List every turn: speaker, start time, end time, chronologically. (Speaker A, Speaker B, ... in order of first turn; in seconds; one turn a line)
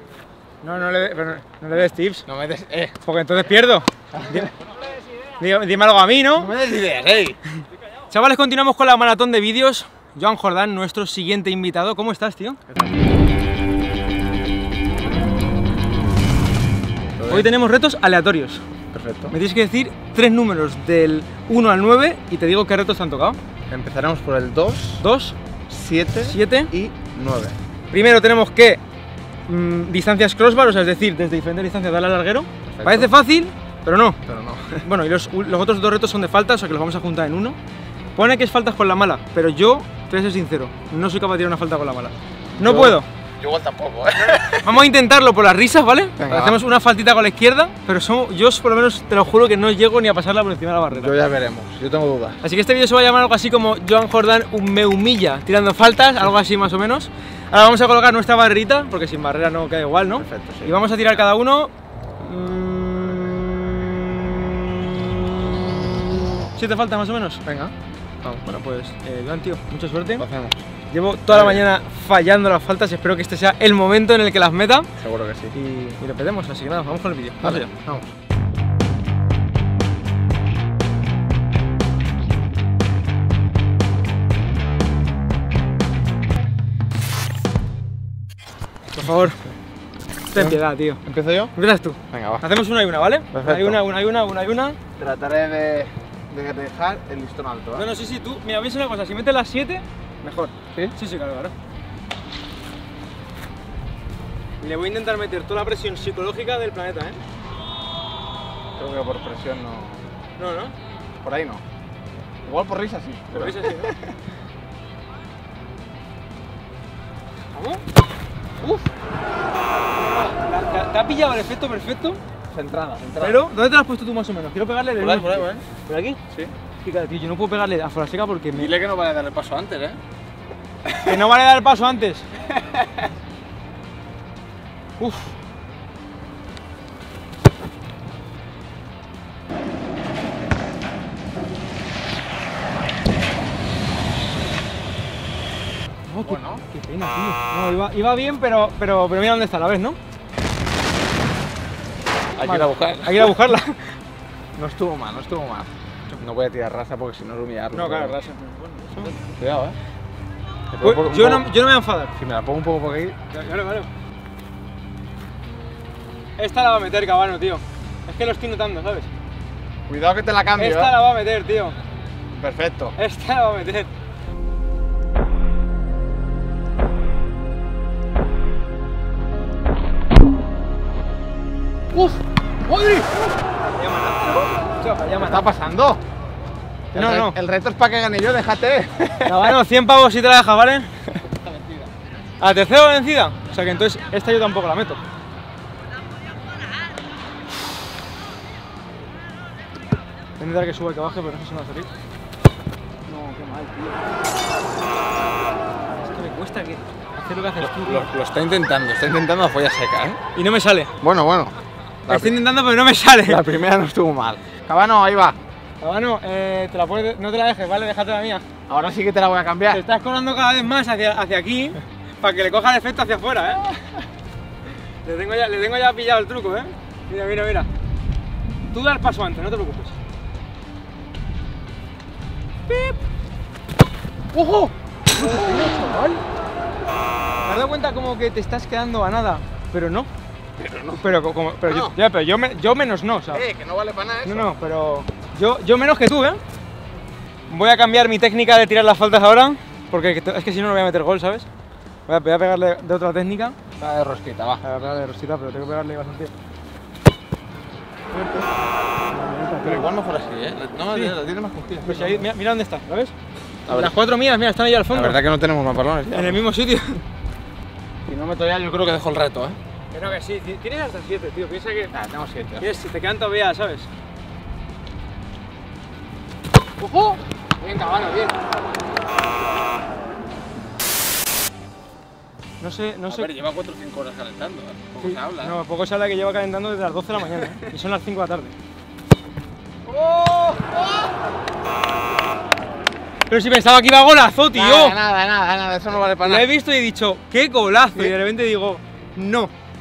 Speaker A: 0.6-2.2
Speaker B: 2.3-3.0
Speaker A: 3.0-4.5
Speaker B: 4.1-4.5
Speaker A: 5.3-6.5
Speaker B: 6.4-7.4
Speaker A: 8.1-12.6
Speaker B: 17.2-17.5
Speaker A: 17.3-18.6
Speaker B: 18.9-19.3
Speaker A: 19.3-23.4
Speaker B: 23.7-25.0
Speaker A: 25.0-25.4
Speaker B: 25.7-27.6
Speaker A: 26.2-26.7
Speaker A: 27.9-28.8
Speaker A: 29.5-34.2
Speaker B: 32.7-33.1
Speaker B: 34.3-34.9
Speaker A: 34.8-37.6
Speaker A: 38.2-43.1
Speaker B: 42.6-44.7
Speaker A: 44.2-51.2
Speaker B: 46.2-46.6
Speaker B: 50.9-52.4
Speaker A: 52.4-65.5
Speaker B: 60.1-61.2
Speaker A: 66.6-67.4
Speaker B: 67.5-68.4
Speaker A: 68.4-70.2
Speaker B: 70.2-70.6
Speaker A: 70.9-74.9
Speaker B: 71.3-71.7
Speaker B: 75.0-75.5
Speaker A: 75.5-77.7
Speaker B: 77.4-78.1
Speaker A: 88.9-89.4
Speaker A: 90.3-91.0
Speaker B: 90.3-91.5
Speaker A: 91.5-94.8
Speaker B: 92.1-92.4
Speaker B: 93.3-93.8
Speaker B: 95.0-97.9
Speaker A: 97.7-101.5
Speaker A: 104.6-107.2
Speaker B: 108.8-110.1
Speaker A: 110.4-110.8
Speaker B: 111.2-111.6
Speaker B: 112.4-114.1
Speaker A: 113.3-113.9
Speaker A: 117.5-117.8
Speaker A: 118.6-118.9
Speaker A: 120.0-122.2
Speaker B: 122.5-123.4
Speaker A: 123.2-126.2
Speaker B: 125.0-125.6
Speaker A: 126.8-128.7
Speaker B: 128.5-130.0
Speaker A: 131.0-132.3
Speaker A: 135.0-135.3
Speaker A: 146.1-150.0
Speaker B: 146.2-146.6
Speaker B: 152.3-153.4
Speaker A: 152.4-154.0
Speaker B: 154.6-158.2
Speaker A: 157.7-159.2
Speaker B: 159.2-159.8
Speaker B: 160.7-161.4
Speaker A: 160.8-162.1
Speaker B: 162.2-163.2
Speaker A: 163.3-163.9
Speaker A: 166.4-169.1
Speaker B: 169.9-170.9
Speaker A: 170.6-171.8
Speaker B: 172.3-173.0
Speaker A: 173.0-173.9
Speaker A: 181.9-185.4
Speaker B: 185.2-186.0
Speaker A: 186.9-187.4
Speaker B: 186.9-189.4
Speaker A: 189.2-190.9
Speaker B: 191.4-191.9
Speaker A: 192.4-195.0
Speaker A: 200.4-201.9
Speaker A: 203.1-204.0
Speaker A: 206.0-208.1
Speaker B: 207.6-210.2
Speaker A: 210.3-210.9
Speaker B: 211.0-211.6
Speaker A: 212.1-213.5
Speaker B: 212.1-212.4
Speaker B: 213.2-215.4
Speaker A: 215.8-218.5
Speaker B: 218.7-219.8
Speaker A: 219.7-223.8
Speaker A: 225.0-227.7
Speaker A: 228.7-230.0
Speaker A: 232.7-233.0
Speaker A: 234.3-236.2
Speaker B: 235.2-235.9
Speaker A: 237.4-240.1
Speaker B: 240.6-241.1
Speaker A: 240.9-243.5
Speaker B: 241.6-242.0
Speaker B: 243.3-244.5
Speaker A: 244.2-246.4
Speaker A: 247.5-251.5
Speaker A: 252.1-253.6
Speaker B: 253.8-254.6
Speaker A: 254.6-256.3
Speaker A: 258.2-258.4
Speaker A: 259.1-259.9
Speaker B: 259.6-262.3
Speaker A: 261.8-263.1
Speaker B: 263.7-263.9
Speaker A: 263.7-265.2
Speaker B: 264.9-266.4
Speaker A: 266.1-267.0
Speaker B: 268.1-269.6
Speaker A: 269.9-271.9
Speaker B: 271.9-272.8
Speaker A: 272.6-273.9
Speaker A: 276.8-278.4
Speaker A: 282.6-283.3
Speaker B: 283.1-285.6
Speaker A: 285.0-288.5
Speaker B: 289.9-291.1
Speaker A: 293.3-295.0
Speaker B: 294.5-296.5
Speaker A: 296.1-299.5